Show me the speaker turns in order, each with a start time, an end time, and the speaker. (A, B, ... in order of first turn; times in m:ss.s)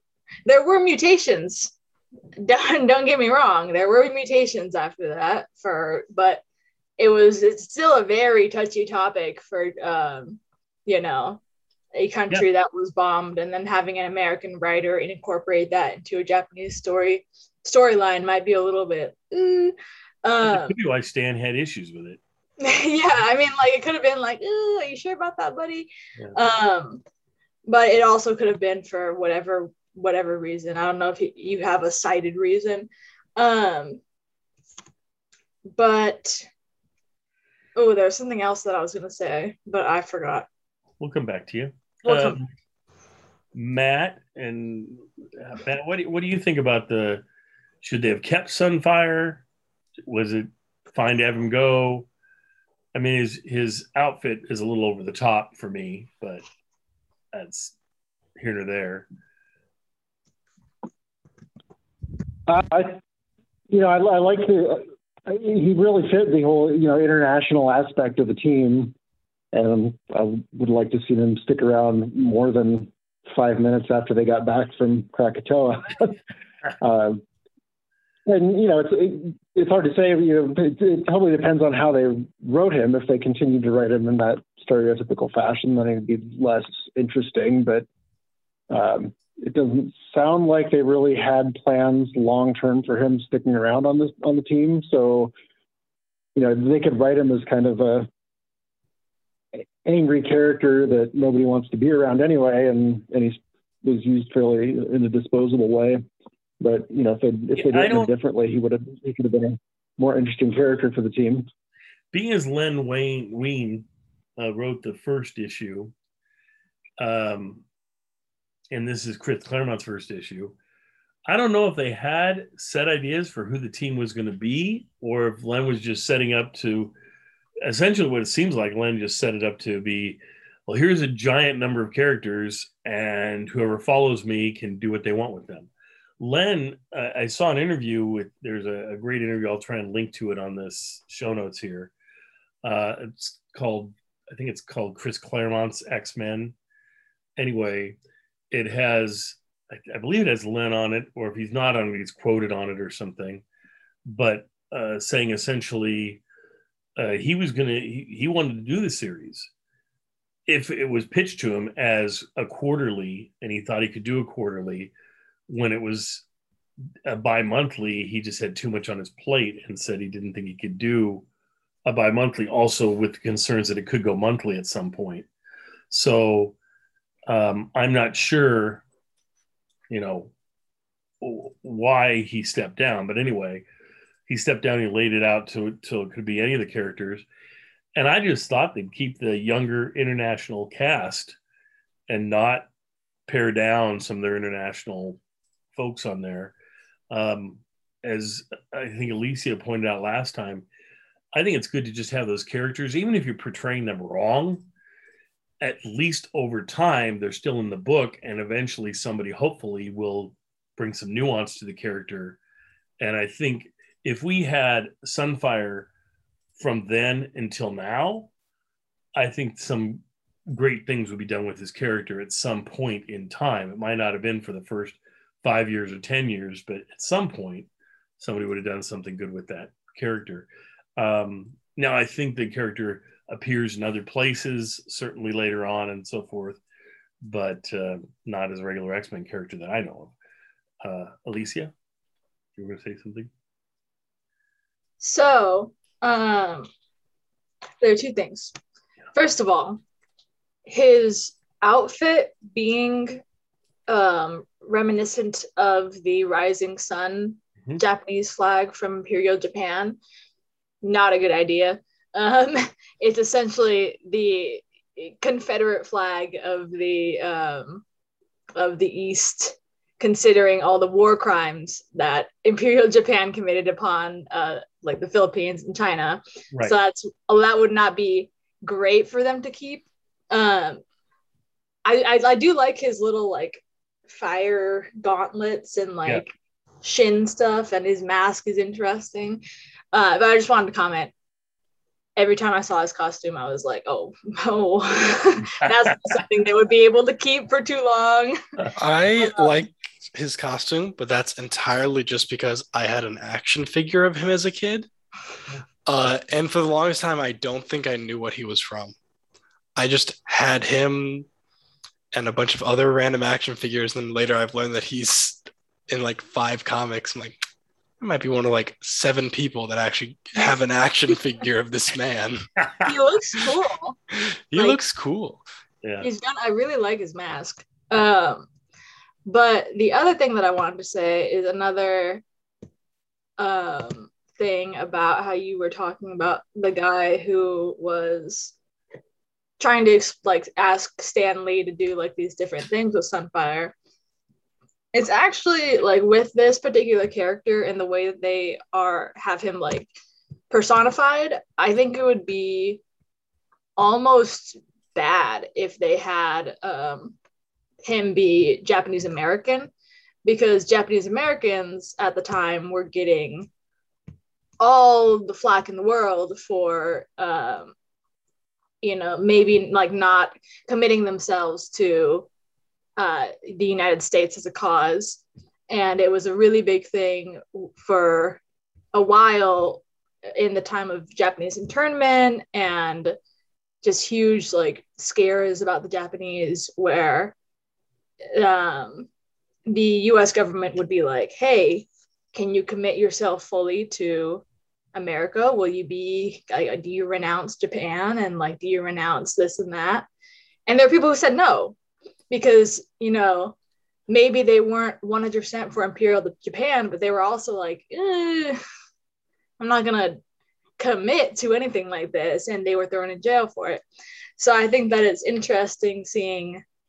0:00.4-0:01.7 A
0:02.4-0:06.4 A
0:07.0-0:11.4 A
0:11.9-0:20.7 A
0:20.4-0:22.2 B
0:22.6-0:27.0 A
0:27.6-0:34.0 A
0:35.7-0:36.4 A
0:37.8-0:40.5 A
0:41.0-0:42.5 B
0:42.0-0:42.4 A
0:43.5-0:47.2 B
0:47.8-0:49.4 B
0:50.1-0:52.1 B
0:52.9-0:56.4 B
0:57.3-0:57.7 B
0:58.4-0:59.1 B
1:02.5-1:03.0 C
1:03.7-1:08.9 C
1:09.5-1:16.2 C
1:16.8-1:17.2 C
1:18.2-1:27.8 C
1:28.7-1:35.3 C
1:36.3-1:38.1 C
1:39.8-1:46.0 C
1:46.6-1:51.5 C
1:47.5-1:48.1 B
1:52.1-1:53.8 B
1:54.4-1:55.9 B
1:57.0-1:57.6 B
1:58.7-2:00.5 B
2:01.2-2:06.9 B
2:07.6-2:15.7 B
2:16.2-2:21.9 B
2:22.6-2:26.5 B
2:27.4-2:28.0 B
2:28.5-2:33.4 B
2:34.0-2:36.2 B
2:37.0-2:39.5 B
2:40.5-2:44.9 B
2:45.5-2:46.2 B
2:47.0-2:51.2 B
2:51.8-2:55.3 B
2:55.9-2:56.5 B
2:57.3-2:58.8 B
2:59.9-3:00.3 B
3:01.2-3:03.6 B
3:04.3-3:07.2 B
3:07.9-3:11.4 B
3:12.1-3:12.7 B
3:13.3-3:15.2 B
3:15.7-3:16.5 B
3:17.1-3:20.6 B
3:21.3-3:24.6 B
3:25.6-3:32.4 B
3:33.0-3:35.9 B
3:36.6-3:38.3 B
3:39.2-3:56.6 B
3:57.2-4:00.1 B
4:00.8-4:01.7 B
4:02.6-4:03.3 B
4:05.0-4:06.7 A
4:07.8-4:08.5 A
4:09.1-4:09.8 A
4:10.6-4:13.2 A
4:13.9-4:20.0 A
4:20.8-4:27.8 A
4:28.5-4:40.8 A
4:41.8-4:49.4 A
4:49.9-4:51.1 A
4:52.2-4:59.6 A
4:58.8-5:04.9 D
5:05.8-5:08.9 D
5:09.8-5:11.3 D
5:12.1-5:17.4 D
5:18.0-5:22.4 D
5:22.6-5:22.9 B
5:22.8-5:24.0 A
5:24.5-5:25.4 D
5:24.5-5:24.8 A
5:25.8-5:26.1 B
5:26.0-5:28.5 A
5:29.2-5:32.2 A
5:33.4-5:38.5 A
5:39.6-5:43.7 A
5:44.9-5:49.9 A
5:50.5-5:52.8 A
5:53.8-5:57.2 A
5:57.8-5:59.7 A
6:00.2-6:03.5 A
6:04.6-6:07.7 A
6:08.8-6:12.3 A
6:13.0-6:18.4 A
6:18.9-6:19.8 A
6:20.3-6:23.2 A
6:23.8-6:27.3 A
6:28.3-6:29.1 A
6:29.7-6:34.4 A
6:34.9-6:40.1 A
6:40.7-6:41.8 A
6:42.3-6:43.5 A
6:44.1-6:48.6 A
6:49.6-6:50.2 A
6:50.8-6:53.8 A
6:54.4-6:56.6 A